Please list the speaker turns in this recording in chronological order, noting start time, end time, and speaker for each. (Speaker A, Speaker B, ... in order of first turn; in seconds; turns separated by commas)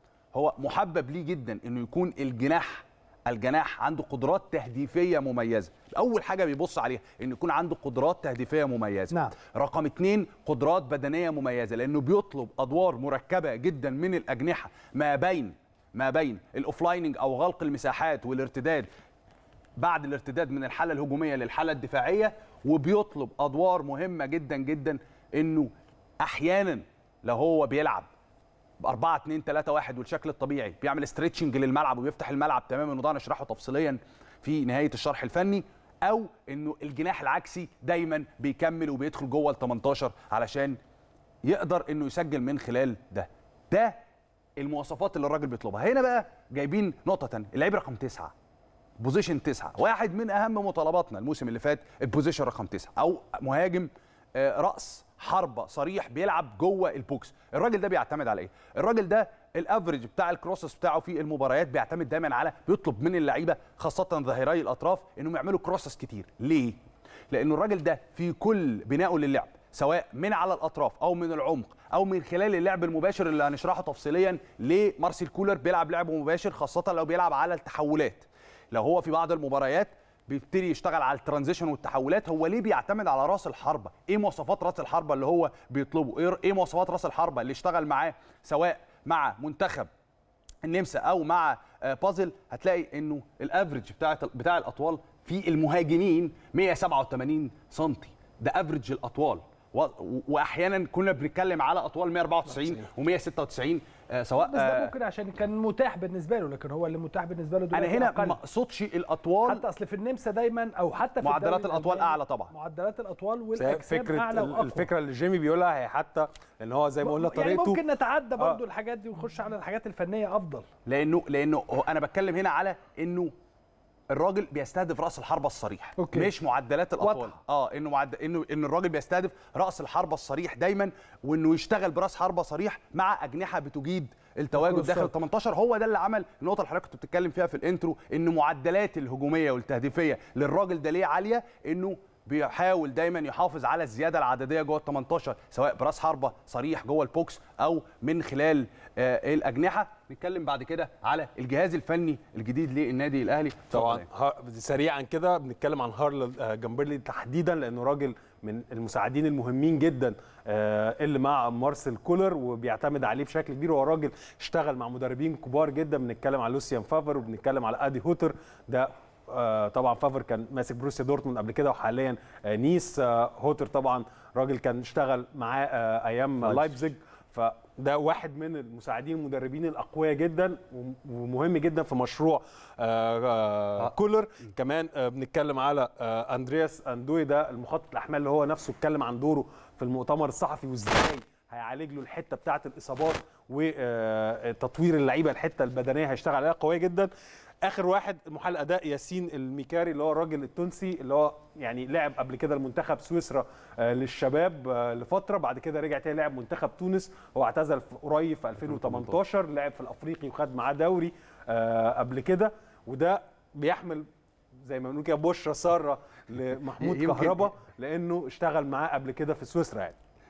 Speaker A: 0.3-18.9, Speaker A: 19.8-25.7, Speaker A: 26.2-28.1, Speaker A: 28.8-40.8, Speaker A: 41.4-43.9, Speaker A: 44.6-48.3, Speaker A: 49.0-66.8, Speaker A: 67.3-89.9, Speaker A: 90.6-104.9, Speaker B: 104.4-108.4, Speaker A: 107.7-109.6, Speaker B: 109.4-114.9, Speaker A: 111.2-112.5, Speaker C: 113.5-117.8, Speaker B: 117.0-120.7, Speaker A: 120.8-123.3, Speaker A: 124.1-154.1, Speaker B: 126.0-126.3, Speaker B: 127.0-127.3, Speaker B: 134.5-135.1, Speaker C: 153.7-197.1, Speaker A: 176.4-176.8, Speaker C: 197.6-214.1, Speaker A: 208.6-209.2, Speaker C: 214.6-219.9, Speaker A: 216.8-217.5